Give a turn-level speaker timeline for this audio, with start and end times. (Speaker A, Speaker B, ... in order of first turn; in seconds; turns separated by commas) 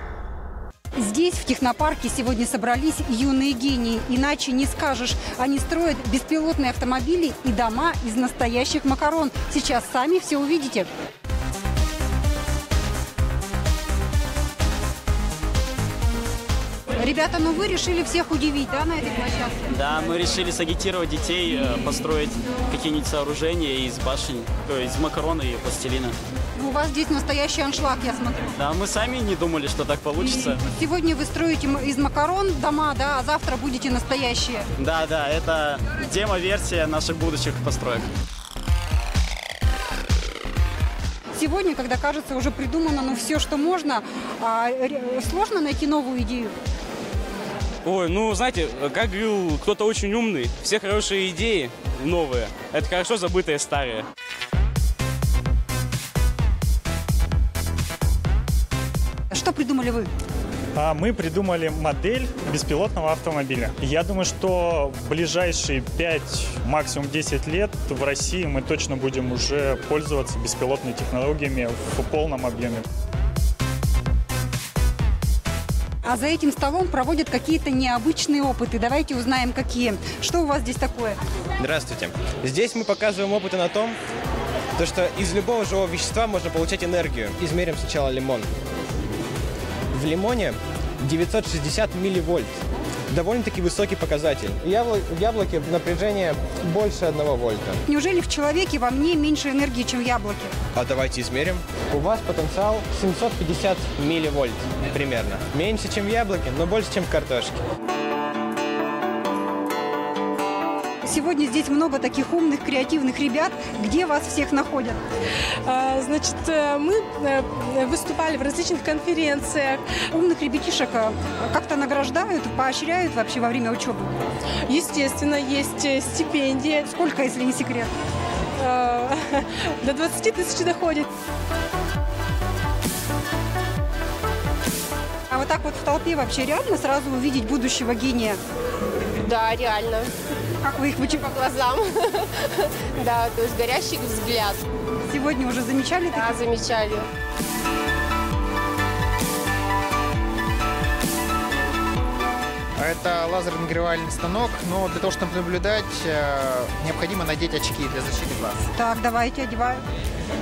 Speaker A: 1.0-10.9, Speaker A: 17.0-19.7, Speaker B: 19.7-26.2, Speaker A: 26.6-28.5, Speaker B: 28.6-30.6, Speaker A: 30.2-34.7, Speaker B: 34.8-38.1, Speaker A: 41.3-46.5, Speaker C: 47.9-54.1, Speaker A: 59.3-60.1, Speaker D: 60.8-72.8, Speaker A: 76.0-81.2, Speaker E: 81.6-84.0, Speaker E: 84.8-88.5, Speaker E: 89.9-92.6, Speaker E: 93.1-97.8, Speaker A: 97.9-100.5, Speaker E: 100.8-107.6, Speaker A: 111.0-115.0, Speaker F: 115.6-120.0, Speaker A: 120.1-124.1, Speaker F: 124.7-126.9, Speaker A: 126.9-127.9, Speaker F: 128.6-131.1, Speaker A: 135.3-138.4, Speaker G: 139.2-140.1, Speaker A: 140.6-141.2, Speaker G: 141.2-141.9, Speaker G: 143.0-144.6, Speaker A: 145.1-146.3, Speaker G: 146.2-147.1, Speaker H: 152.8-158.5, Speaker A: 158.8-159.8